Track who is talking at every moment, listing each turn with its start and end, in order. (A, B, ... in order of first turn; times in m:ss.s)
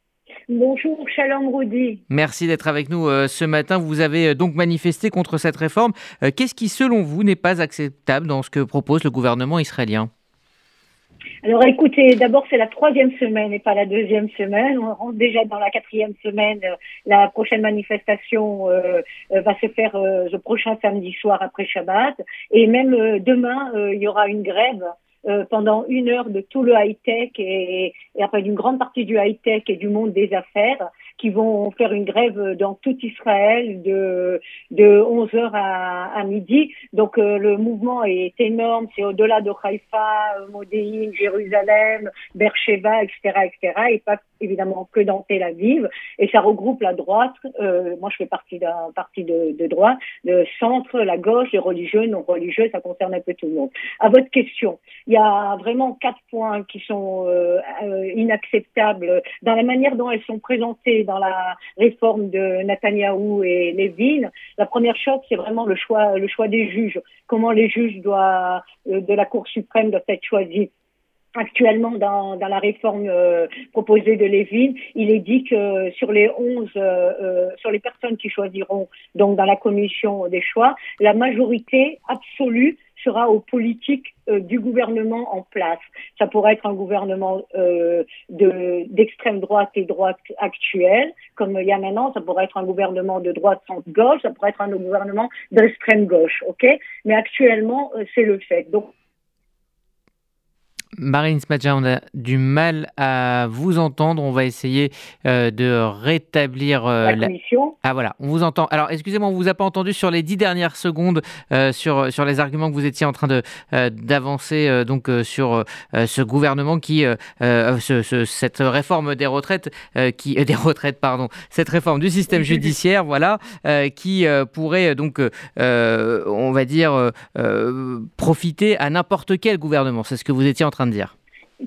0:00.5-0:02.0 A
0:02.1-0:10.1 B
0:11.4-1:10.7 A
1:11.4-1:38.9 A
1:41.0-1:47.3 B
1:47.0-1:47.8 A
1:47.8-2:11.1 B
2:02.3-2:02.7 A